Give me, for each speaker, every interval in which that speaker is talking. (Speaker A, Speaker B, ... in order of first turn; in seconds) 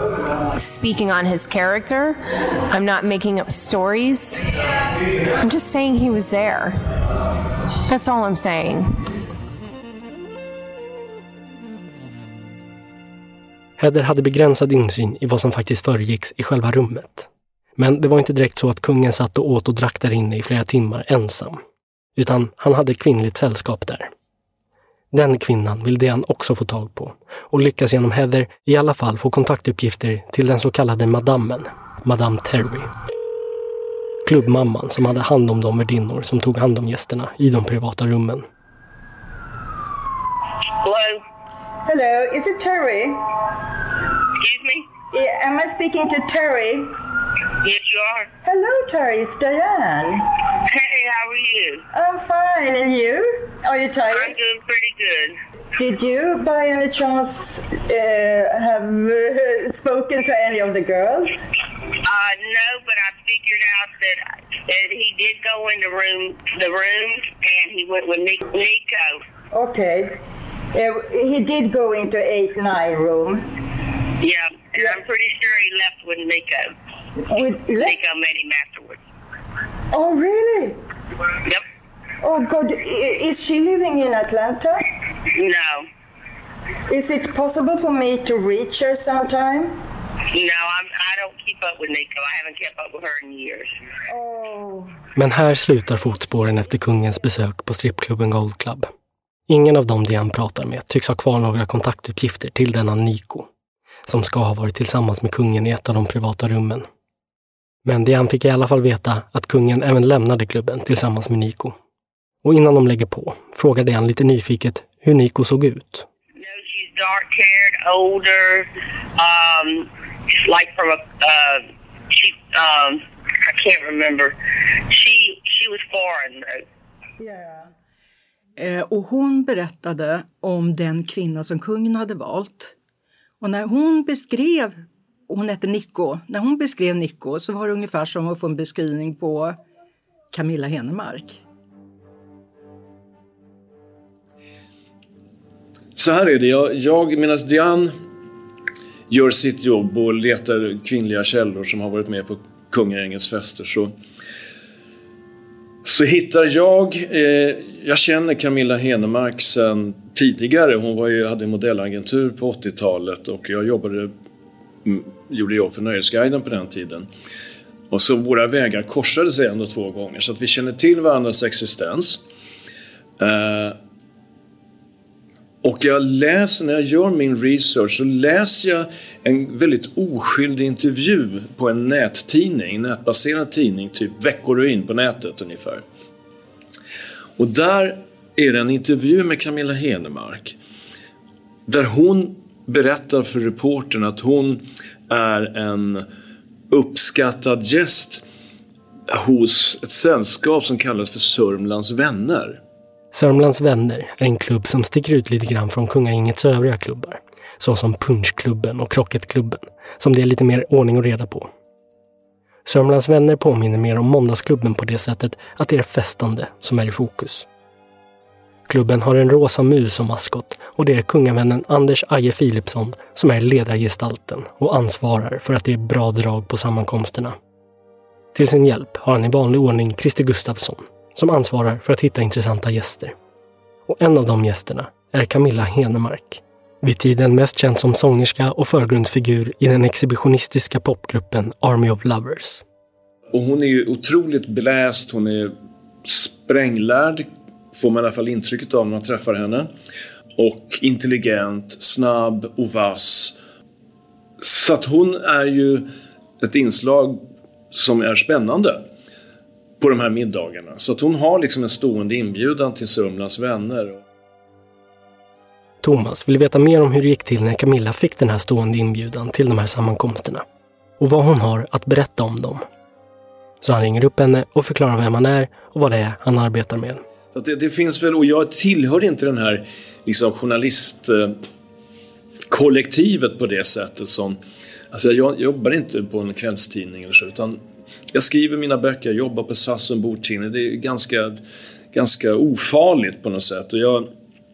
Speaker A: 0.5-4.4, 5.4-6.8, 7.9-9.1
Speaker B: 13.8-21.6, 22.1-24.1, 25.1-32.9, 34.2-38.4, 95.2-98.9, 99.5-103.5, 104.1-106.9, 107.8-111.7, 112.4-116.1, 203.1-211.5, 212.7-217.5, 218.7-227.3, 228.3-233.1, 233.9-242.6, 265.8-270.4, 271.0-272.6, 273.6-277.0
Speaker C: 40.8-41.2, 44.4-44.9, 47.6-48.3, 50.7-51.9, 54.1-55.4, 62.1-69.2, 74.2-76.7, 77.8-79.0, 85.3-85.9, 90.3-93.7, 116.4-124.3, 124.9-126.6
Speaker D: 41.9-43.2, 45.1-46.9, 48.4-50.2, 51.9-54.4, 55.8-61.5, 69.5-70.2, 70.7-73.5, 77.2-78.0, 79.9-80.8, 82.2-84.8, 86.9-89.8, 94.1-94.9
Speaker E: 128.6-132.7, 133.4-139.6, 140.3-141.4
Speaker F: 146.0-148.0, 149.1-153.9, 155.8-164.1, 164.8-167.1, 167.9-172.2, 173.2-173.8, 175.6-185.8, 187.4-190.6, 191.7-196.1, 196.7-198.2, 199.1-202.6, 243.3-249.7, 250.4-253.3, 254.4-255.9, 256.4-258.8, 259.8-264.0, 277.3-281.4, 282.5-284.4, 284.9-287.6, 288.1-291.4, 291.9-294.1